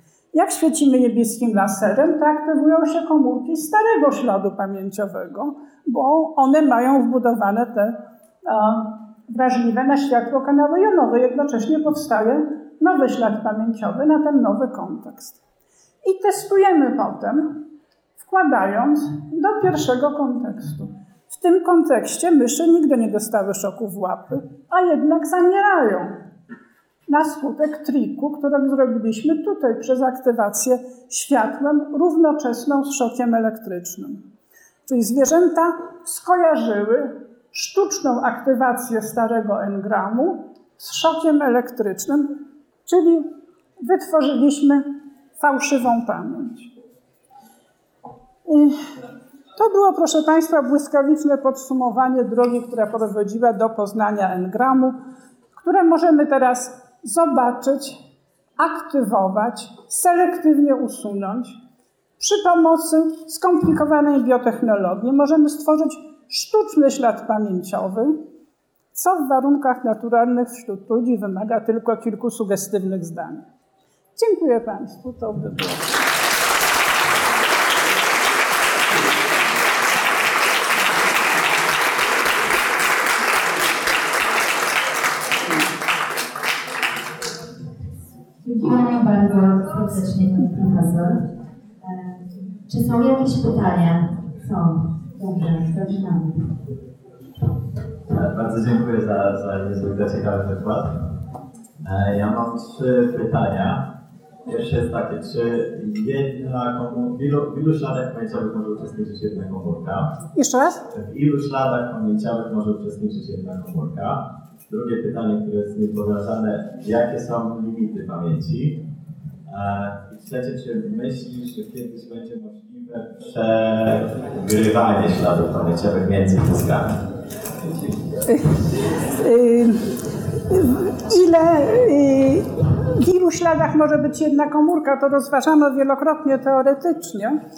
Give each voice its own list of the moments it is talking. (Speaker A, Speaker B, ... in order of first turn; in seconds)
Speaker A: 0.3-15.4, 16.0-17.6, 18.2-26.1, 27.1-34.2, 34.9-42.3, 42.9-44.9, 45.4-46.7, 48.5-48.8, 49.6-55.0, 55.6-58.0, 58.6-61.6, 62.2-68.2, 68.9-73.4, 74.2-76.1, 110.3-110.8, 128.3-129.9, 130.5-132.5, 133.0-137.4
Speaker B: 88.4-91.3, 91.8-96.6
Speaker C: 98.1-100.9, 101.8-103.9, 104.5-110.2, 110.9-118.8, 119.5-127.0, 127.6-128.0